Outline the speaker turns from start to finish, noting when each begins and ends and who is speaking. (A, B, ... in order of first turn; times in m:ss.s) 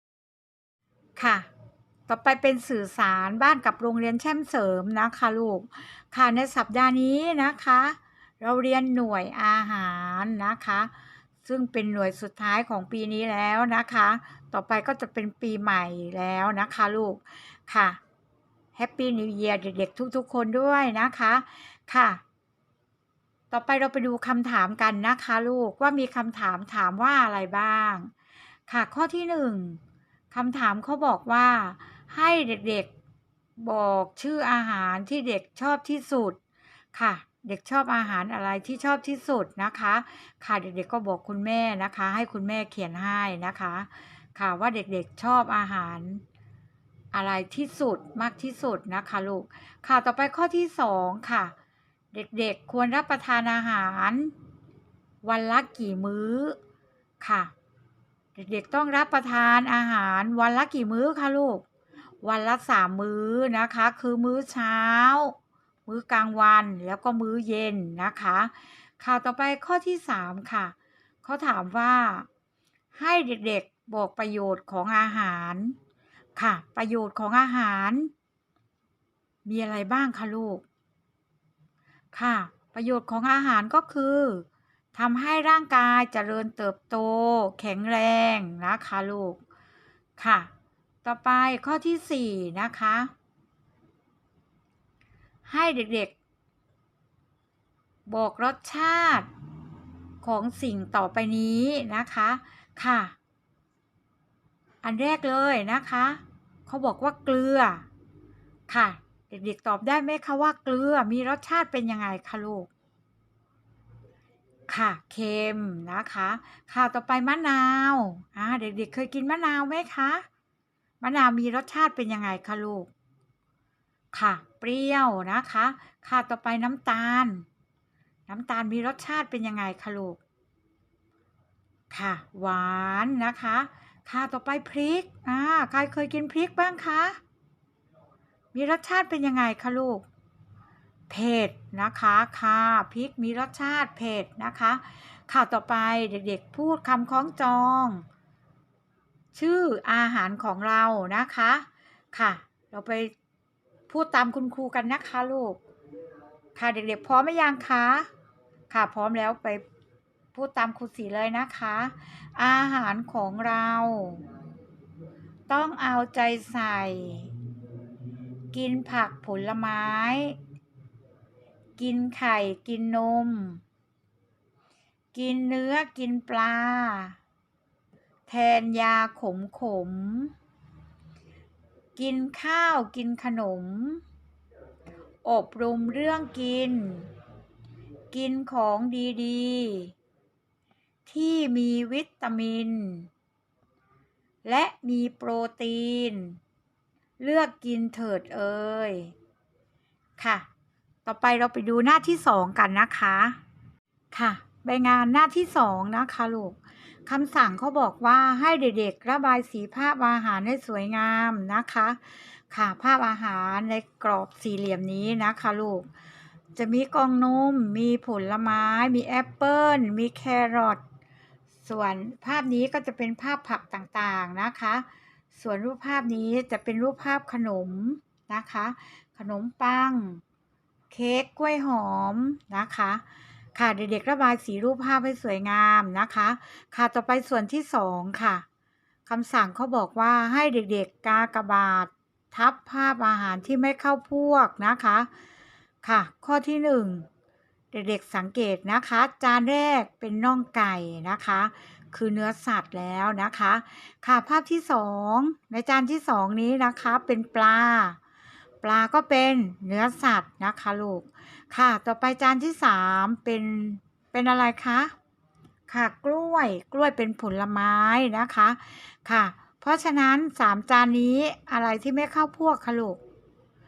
0:01.2-0:01.5 A
0:02.1-0:10.9 A
0:11.4-0:18.0 A
0:18.8-0:22.2 A
0:23.5-0:28.1 A
0:28.7-0:29.8 A
0:30.3-0:32.9 A
0:33.6-0:36.4 A
0:36.9-0:46.2 A
0:47.1-0:51.5 A
0:52.1-0:54.3 A
0:55.2-0:56.6 A
0:57.2-0:57.5 A
0:58.3-1:01.6 A
1:02.2-1:05.3 A
1:05.8-1:12.3 A
1:12.9-1:15.8 A
1:16.4-1:18.1 A
1:19.4-1:20.6 A
1:22.1-1:29.4 A
1:30.2-1:30.5 A
1:31.0-1:33.1 A
1:35.5-1:36.1 A
1:38.0-1:39.3 A
1:40.2-1:43.1 A
1:44.8-1:47.8 A
1:48.7-1:52.7 A
1:54.7-2:00.2 A
2:01.0-2:02.9 A
2:04.1-2:07.4 A
2:08.3-2:10.2 A
2:11.9-2:17.2 A
2:18.5-2:20.0 A
2:21.1-2:28.0 A
2:29.3-2:33.1 A
2:33.9-2:35.6 A
2:36.5-2:38.1 A
2:38.7-2:39.6 A
2:40.3-2:44.2 A
2:45.5-2:47.3 A
2:48.5-2:50.4 A
2:51.8-2:53.6 A
2:55.1-2:57.2 A
2:58.3-3:00.3 A
3:02.0-3:04.0 A
3:05.2-3:07.1 A
3:08.1-3:09.9 A
3:11.0-3:13.1 A
3:14.4-3:16.4 A
3:17.2-3:19.1 A
3:20.2-3:20.4 A
3:21.0-3:23.4 A
3:24.1-3:35.9 A
3:36.6-3:40.8 A
3:41.6-3:50.2 A
3:50.9-3:53.0 A
3:53.5-3:58.4 A
3:59.0-4:05.1 A
4:05.8-4:07.1 A
4:07.7-4:18.0 A
4:18.6-4:24.9 A
4:25.7-4:33.0 A